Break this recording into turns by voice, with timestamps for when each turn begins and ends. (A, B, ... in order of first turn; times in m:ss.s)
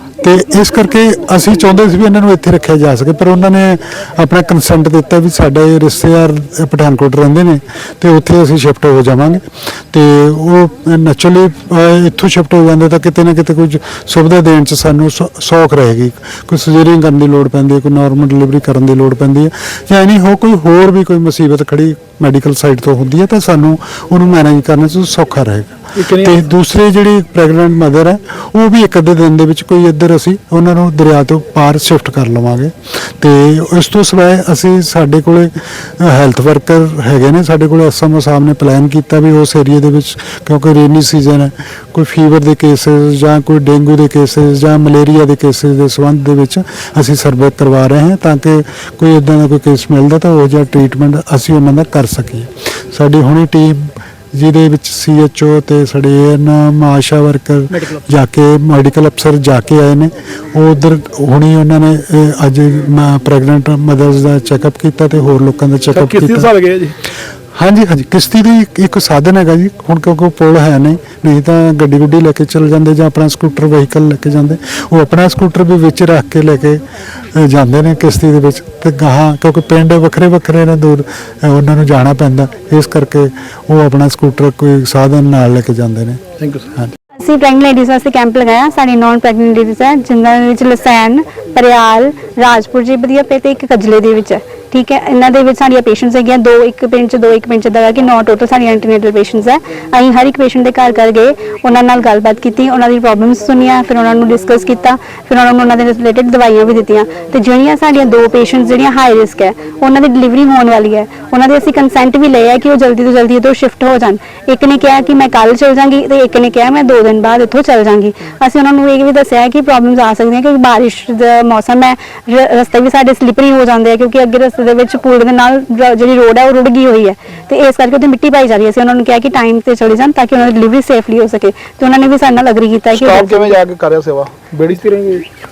0:00.2-1:06.5 A
0:25.9-0:26.4 B
0:57.7-0:58.0 B
1:05.9-1:07.0 B
1:07.5-1:26.9 A
1:26.4-1:26.7 B
1:27.2-2:13.6 C
2:12.9-2:15.2 B